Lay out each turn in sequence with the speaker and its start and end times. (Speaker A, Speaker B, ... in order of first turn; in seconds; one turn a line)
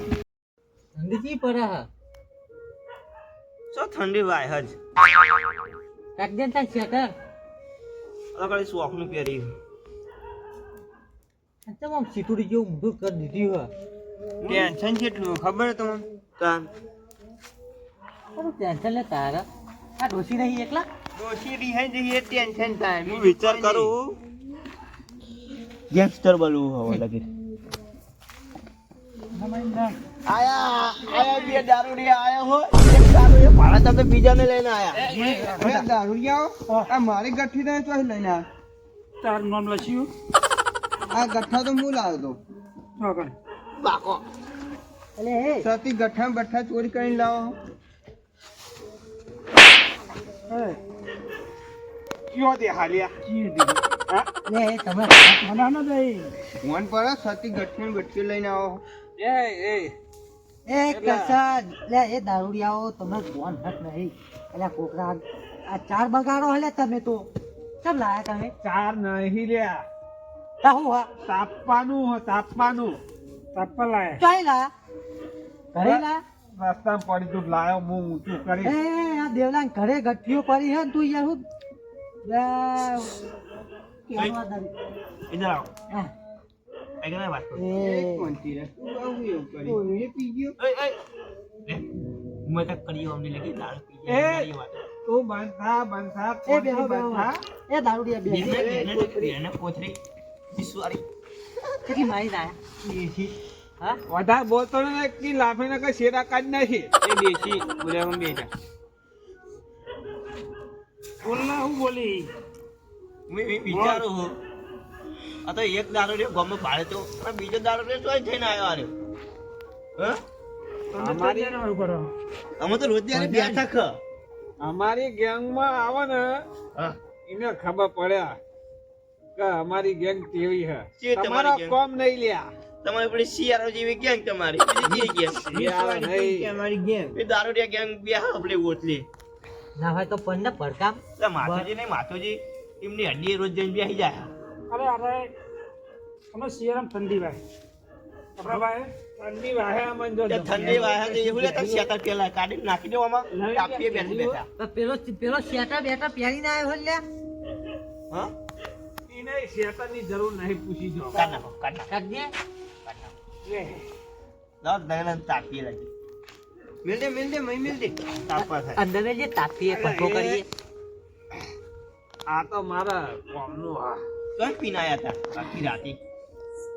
Speaker A: 0.9-1.9
Speaker B: 3.7-4.8
Speaker A: 6.2-7.1
Speaker B: 8.3-9.5
Speaker A: 11.7-13.7
Speaker C: 14.4-16.0
Speaker B: 16.4-16.7
Speaker A: 18.4-19.5
Speaker A: 20.0-20.9
Speaker C: 21.1-24.2
Speaker B: 23.1-24.0
Speaker B: 25.9-27.2
Speaker D: 29.3-30.0
Speaker B: 30.3-35.0
Speaker E: 34.9-35.8
Speaker D: 35.1-35.9
Speaker C: 35.4-38.4
Speaker D: 36.7-36.9
Speaker D: 39.2-40.1
Speaker C: 41.1-42.4
Speaker D: 43.0-43.3
Speaker B: 43.8-44.2
Speaker A: 45.2-45.7
Speaker C: 45.6-47.5
Speaker D: 50.5-50.8
Speaker E: 52.3-53.2
Speaker C: 53.4-53.8
Speaker A: 54.5-55.4
Speaker D: 55.4-56.3
Speaker C: 56.6-58.8
Speaker E: 59.2-59.9
Speaker A: 60.6-67.3
Speaker E: 60.9-61.4
Speaker A: 67.8-68.5
Speaker E: 68.6-69.8
Speaker A: 70.6-71.1
Speaker E: 71.2-73.0
Speaker D: 73.5-74.2
Speaker A: 74.2-74.7
Speaker A: 75.7-76.2
Speaker E: 75.8-78.7
Speaker A: 78.6-81.4
Speaker A: 82.2-83.2
Speaker A: 84.1-84.7
Speaker B: 85.3-85.7
Speaker B: 87.0-87.7
Speaker A: 87.6-88.3
Speaker C: 87.8-90.5
Speaker A: 89.6-90.0
Speaker B: 90.6-91.0
Speaker B: 92.4-94.8
Speaker E: 94.1-94.5
Speaker E: 95.0-97.4
Speaker A: 96.5-98.9
Speaker B: 98.3-100.0
Speaker C: 98.5-98.9
Speaker B: 100.5-101.0
Speaker A: 101.8-104.0
Speaker E: 104.1-106.9
Speaker C: 107.0-108.5
Speaker D: 111.2-112.3
Speaker B: 113.3-114.3
Speaker D: 113.7-114.0
Speaker B: 115.4-118.9
Speaker D: 120.9-122.1
Speaker E: 121.0-121.6
Speaker B: 122.6-124.0
Speaker A: 123.1-123.6
Speaker E: 124.6-126.4
Speaker E: 127.3-128.4
Speaker E: 129.3-132.5
Speaker B: 131.0-131.8
Speaker B: 132.8-135.5
Speaker C: 134.8-137.2
Speaker E: 135.5-136.5
Speaker B: 137.1-139.1
Speaker A: 139.8-141.7
Speaker B: 141.2-144.3
Speaker D: 144.7-145.3
Speaker D: 146.3-147.4
Speaker D: 148.4-148.9
Speaker E: 149.2-151.9
Speaker B: 150.3-154.4
Speaker E: 153.3-154.4
Speaker A: 154.6-157.0
Speaker E: 159.1-161.2
Speaker B: 161.1-161.9
Speaker A: 161.9-162.3
Speaker B: 162.8-163.1
Speaker E: 163.5-163.7
Speaker B: 164.6-165.9
Speaker C: 166.8-168.0
Speaker B: 168.3-168.8
Speaker A: 168.4-170.4
Speaker E: 169.7-170.4
Speaker E: 172.3-174.0
Speaker B: 174.3-176.0